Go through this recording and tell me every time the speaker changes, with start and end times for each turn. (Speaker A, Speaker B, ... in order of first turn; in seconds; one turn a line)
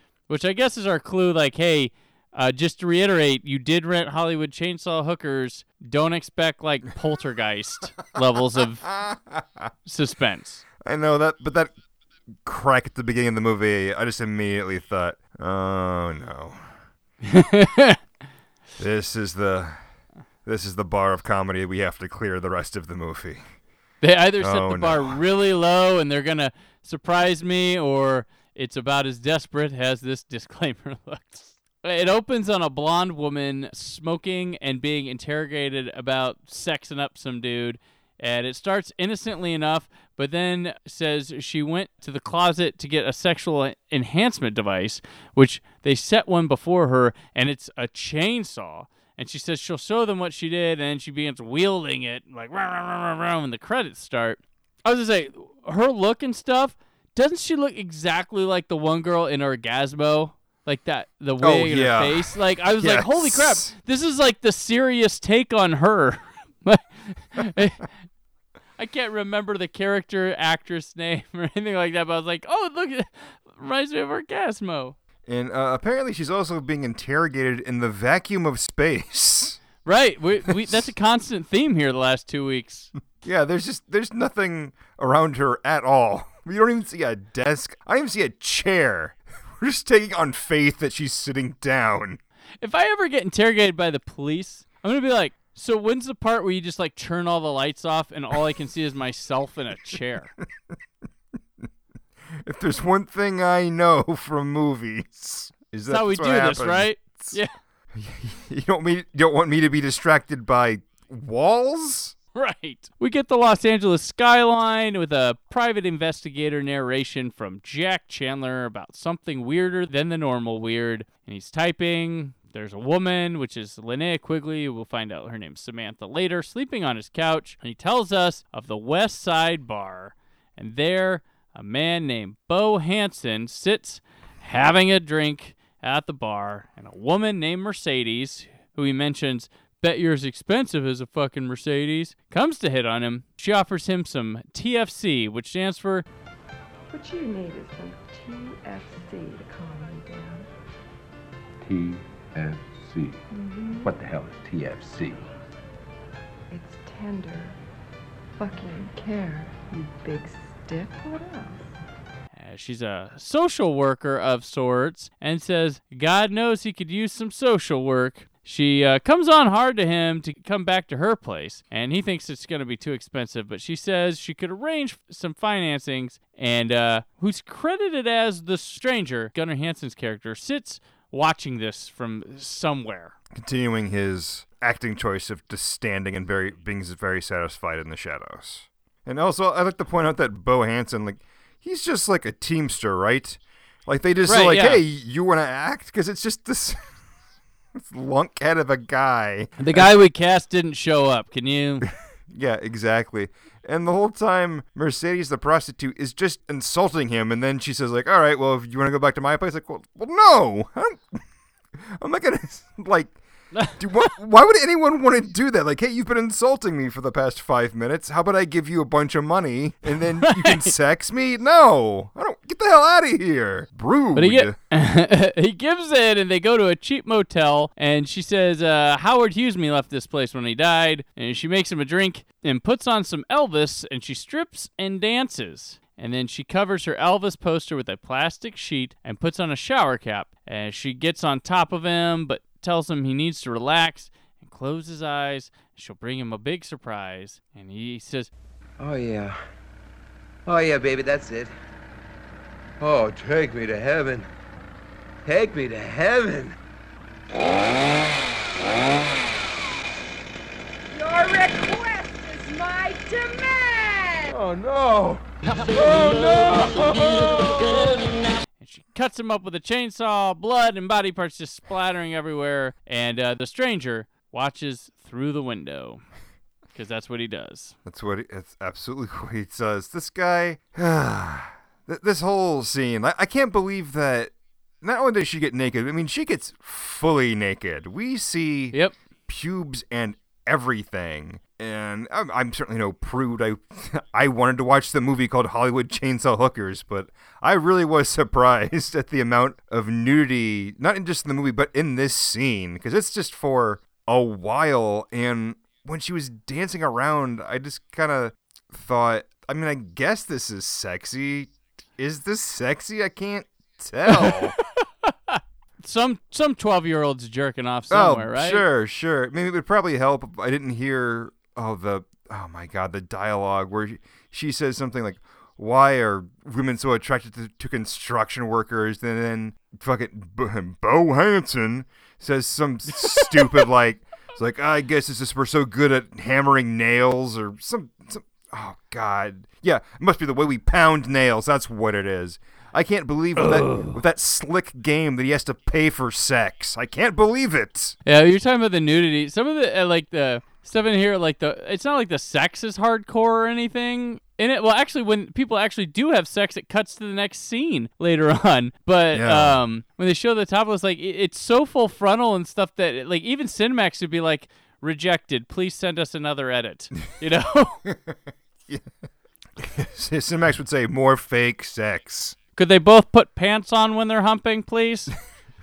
Speaker A: 0.3-8.9
Speaker B: 8.6-9.7
Speaker A: 9.8-10.6
Speaker B: 10.8-11.7
Speaker B: 12.4-16.7
Speaker A: 17.2-18.0
Speaker B: 18.8-19.8
Speaker B: 20.4-23.4
Speaker A: 24.0-67.8
Speaker B: 24.4-25.2
Speaker B: 61.4-63.7
Speaker A: 68.8-75.0
Speaker B: 75.2-79.6
Speaker A: 79.8-82.9
Speaker B: 80.5-80.8
Speaker B: 83.2-92.2
Speaker A: 92.6-100.3
Speaker B: 102.3-107.4
Speaker A: 105.9-107.5
Speaker B: 107.9-112.2
Speaker A: 112.3-146.1
Speaker C: 146.9-150.5
Speaker D: 151.6-153.2
Speaker C: 153.3-153.9
Speaker D: 153.8-155.3
Speaker C: 156.5-157.6
Speaker C: 158.4-161.7
Speaker A: 162.3-183.2
Speaker B: 183.3-196.9
Speaker A: 194.2-194.8
Speaker B: 197.7-199.9
Speaker A: 199.6-201.9
Speaker B: 202.3-211.2
Speaker B: 211.7-213.2
Speaker B: 213.8-224.5
Speaker A: 220.2-220.7
Speaker A: 224.1-248.3
Speaker E: 248.8-249.4
Speaker E: 250.4-251.5
Speaker E: 252.8-254.3
Speaker E: 255.2-256.6
Speaker C: 261.0-264.2
Speaker E: 264.3-267.8
Speaker A: 268.6-276.0
Speaker A: 276.7-277.8
Speaker B: 277.9-314.5
Speaker A: 314.1-318.6
Speaker B: 317.9-347.9
Speaker A: 333.0-333.7
Speaker A: 343.4-344.0
Speaker A: 348.0-367.8
Speaker B: 359.1-359.6
Speaker B: 367.8-368.9
Speaker B: 369.6-372.4
Speaker A: 372.6-375.1